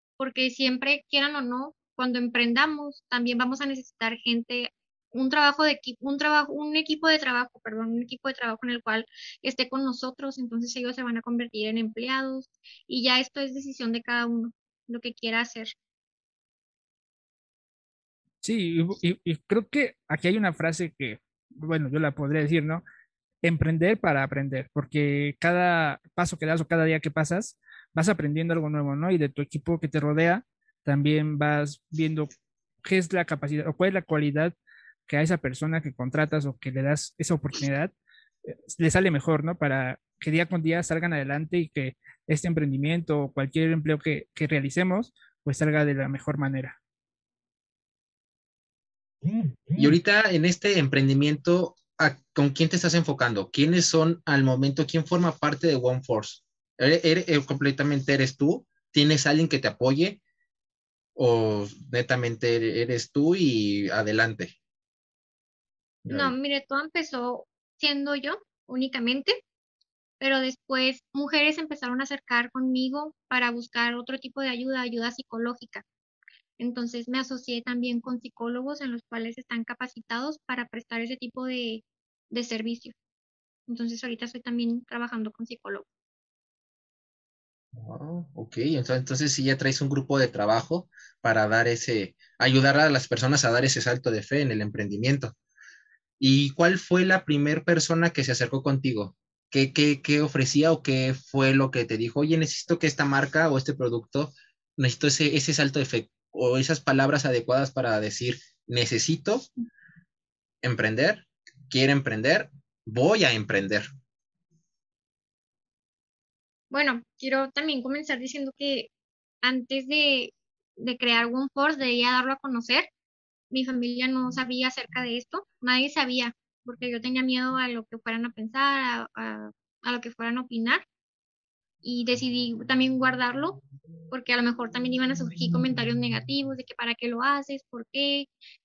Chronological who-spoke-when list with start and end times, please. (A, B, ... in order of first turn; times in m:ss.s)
0:00.2-0:15.7 A
0:18.4-0:22.8 B
0:23.4-0:32.3 B
0:32.8-0:34.5 B
0:35.1-0:37.9 B
0:38.4-0:46.8 B
0:49.7-1:00.2 C
1:01.2-1:04.6 C
1:06.0-1:06.3 C
1:06.1-1:09.4 A
1:10.2-1:15.8 A
1:16.6-1:22.9 A
1:23.7-1:25.8 A
1:27.7-1:35.3 C
1:36.2-1:49.5 C
1:50.6-1:53.8 C
1:56.7-1:58.9 A
1:59.4-2:02.9 A
2:03.5-2:10.8 A
2:11.8-2:13.6 A
2:14.1-2:18.3 A